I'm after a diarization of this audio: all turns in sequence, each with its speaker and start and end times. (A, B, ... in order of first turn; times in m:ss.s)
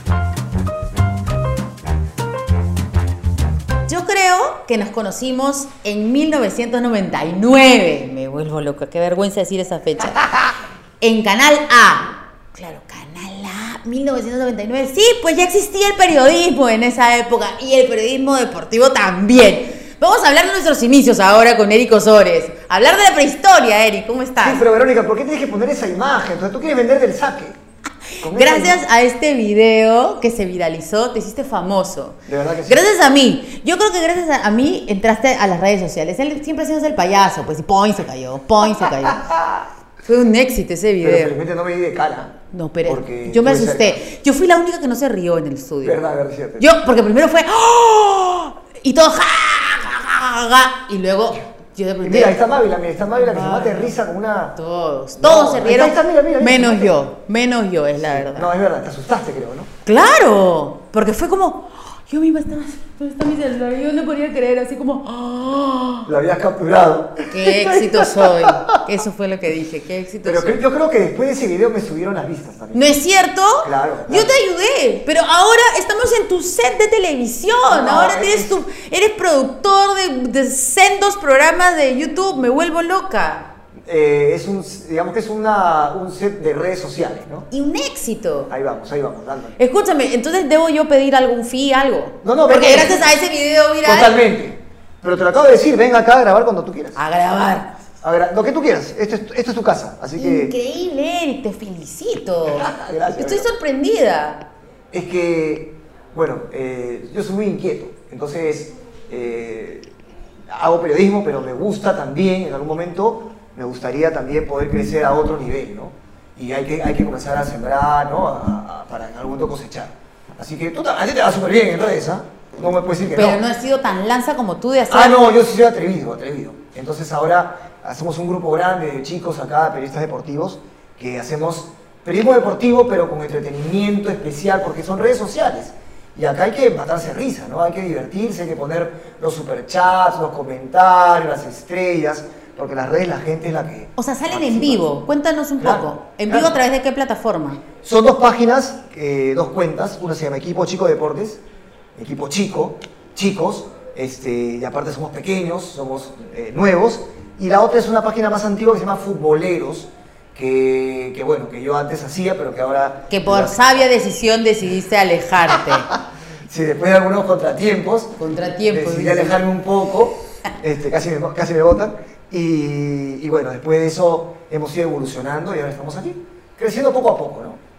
0:03.9-0:10.3 A
0:11.0-0:24.6 A
0:24.4-0:27.6 B
0:28.2-0:39.3 A
0:28.2-0:28.8 B
0:32.3-0:32.8 B
0:38.6-0:39.6 B
0:40.0-0:41.3 A
0:41.0-0:42.3 B
0:42.5-0:46.0 A
0:42.8-0:44.0 B
0:45.8-0:46.7 B
0:46.6-0:52.4 A
0:52.0-0:54.6 B
0:53.1-0:54.0 A
0:54.6-0:58.5 A
0:55.2-0:57.0 B
0:58.0-0:59.7 B
0:59.8-1:06.1 A
1:06.0-1:08.8 B
1:07.3-1:10.6 A
1:10.2-1:13.0 B
1:12.7-1:23.4 A
1:13.6-1:14.3 B
1:17.7-1:18.6 B
1:23.8-1:27.5 B
1:27.5-1:28.5 A
1:28.5-1:29.6 B
1:29.6-1:34.2 A
1:32.2-1:33.1 B
1:33.8-1:37.0 B
1:37.0-1:37.7 A
1:38.0-1:40.5 B
1:40.1-1:44.4 A
1:42.5-1:43.5 B
1:44.9-1:49.9 B
1:50.5-2:03.4 B
2:03.1-2:05.2 A
2:04.9-2:24.8 B
2:24.0-2:27.6 A
2:25.6-2:26.6 B
2:27.8-2:31.4 B
2:32.0-2:43.9 B
2:43.1-2:45.9 A
2:45.5-2:48.2 B
2:48.2-2:49.4 A
2:48.7-2:57.6 B